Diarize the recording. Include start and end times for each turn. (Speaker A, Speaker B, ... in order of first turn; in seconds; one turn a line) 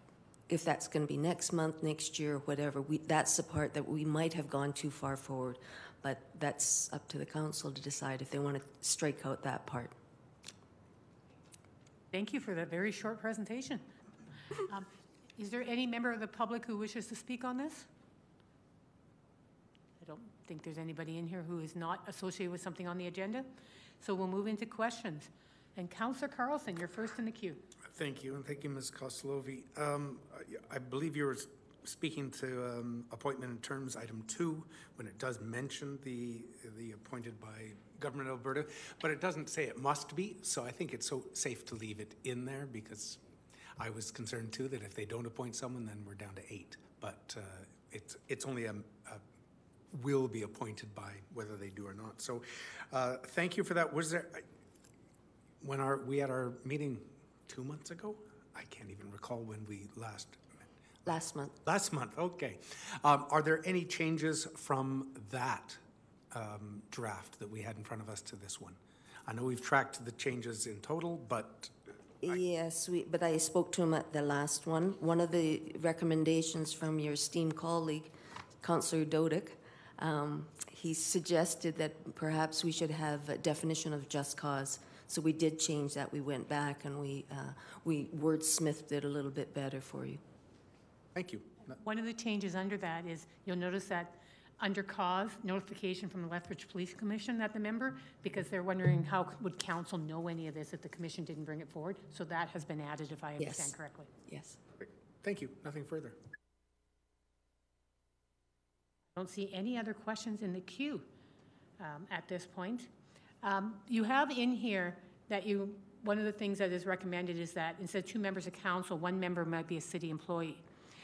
Speaker A: 0.5-9.9
Speaker B: 12.1-13.9
Speaker B: 14.7-17.9
Speaker B: 20.0-23.5
Speaker B: 24.0-27.6
Speaker C: 27.9-43.2
Speaker C: 43.8-49.2
Speaker C: 49.9-54.5
Speaker C: 55.6-60.6
Speaker A: 61.1-61.5
Speaker C: 61.6-65.8
Speaker C: 66.3-71.8
Speaker A: 72.2-90.2
Speaker C: 91.2-91.8
Speaker B: 91.8-104.1
Speaker A: 103.4-103.7
Speaker A: 104.3-104.6
Speaker C: 104.8-106.2
Speaker B: 109.2-111.1
Speaker B: 111.8-112.9
Speaker B: 113.4-120.7